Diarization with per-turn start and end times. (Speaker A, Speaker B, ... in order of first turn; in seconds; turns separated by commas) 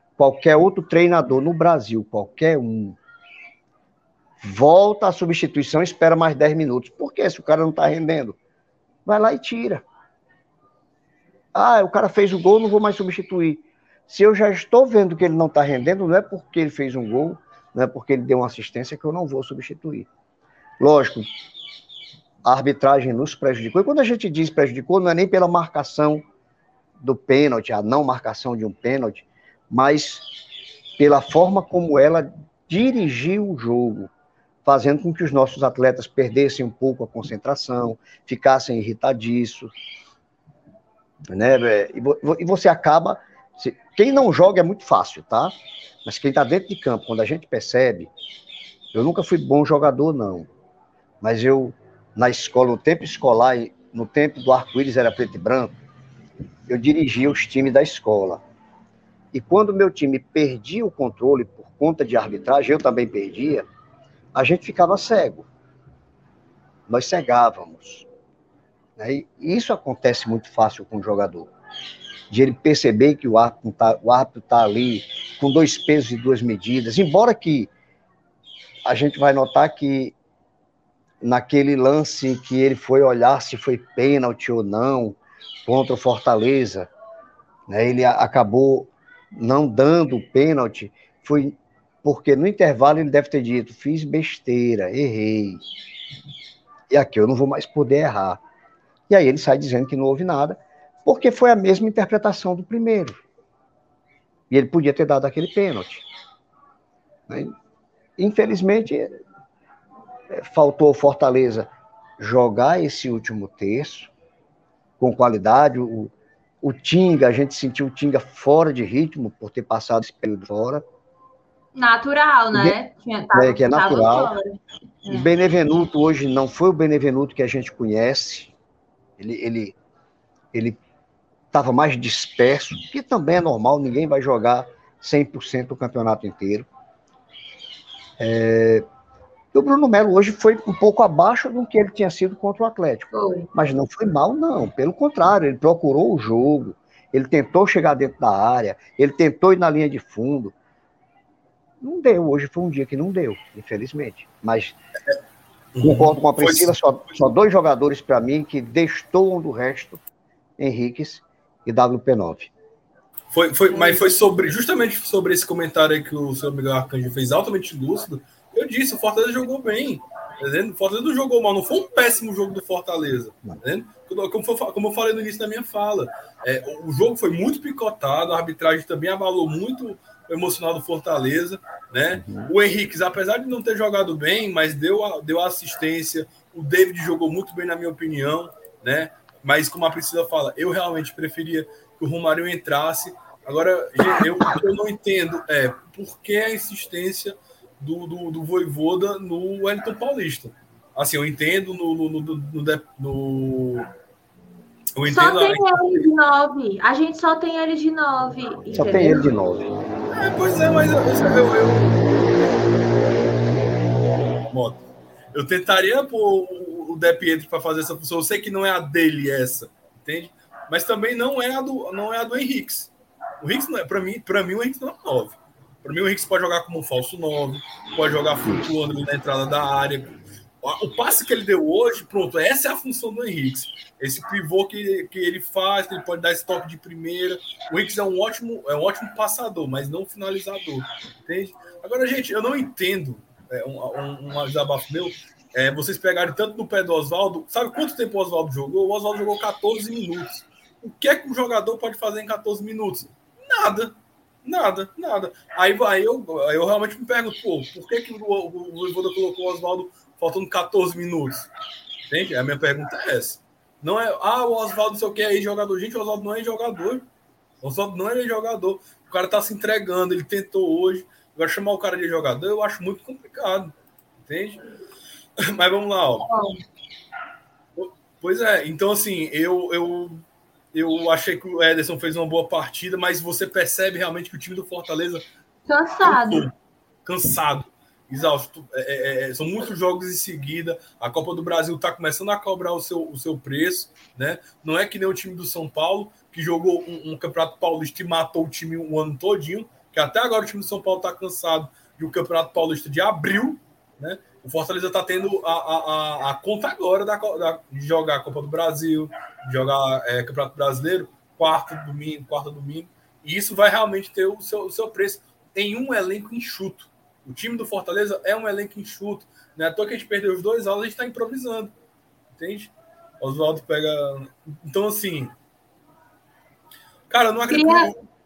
Speaker A: 0.2-3.0, Speaker A: 4.4-8.3, Speaker A: 9.1-9.8, Speaker A: 11.5-20.1, Speaker A: 20.8-21.2, Speaker A: 22.4-26.2, Speaker A: 27.0-30.2, Speaker A: 31.0-34.1, Speaker A: 34.6-39.7, Speaker A: 41.3-48.1, Speaker A: 48.9-50.5, Speaker A: 51.2-55.8, Speaker A: 56.7-58.4, Speaker A: 59.3-63.6, Speaker A: 64.3-65.5, Speaker A: 66.9-68.0, Speaker A: 69.0-71.5, Speaker A: 72.3-77.7, Speaker A: 78.8-80.1, Speaker A: 81.2-86.9, Speaker A: 87.7-95.6, Speaker A: 96.9-98.4, Speaker A: 99.1-103.2, Speaker A: 104.5-106.0, Speaker A: 108.2-109.2, Speaker A: 110.3-111.7, Speaker A: 112.2-114.1, Speaker A: 115.0-120.8, Speaker B: 121.7-125.3, Speaker A: 123.3-124.3, Speaker A: 125.0-128.5, Speaker A: 129.2-129.8, Speaker A: 131.5-136.7, Speaker A: 138.2-138.8, Speaker A: 139.5-150.5, Speaker B: 143.1-143.5, Speaker A: 151.8-154.8, Speaker C: 155.7-156.7, Speaker A: 155.8-160.0, Speaker A: 160.6-162.5, Speaker C: 163.3-203.9, Speaker A: 182.2-182.5, Speaker C: 204.9-206.1, Speaker B: 205.0-209.2, Speaker A: 208.7-209.7, Speaker C: 210.1-212.1, Speaker C: 214.5-261.5, Speaker C: 262.1-267.0, Speaker C: 267.6-273.7, Speaker C: 274.3-274.6, Speaker C: 275.4-276.3, Speaker B: 276.2-276.6, Speaker C: 277.8-285.2, Speaker B: 285.7-286.5, Speaker C: 286.0-286.5, Speaker C: 287.0-321.7, Speaker C: 322.4-325.3, Speaker C: 327.1-328.0, Speaker B: 327.5-327.9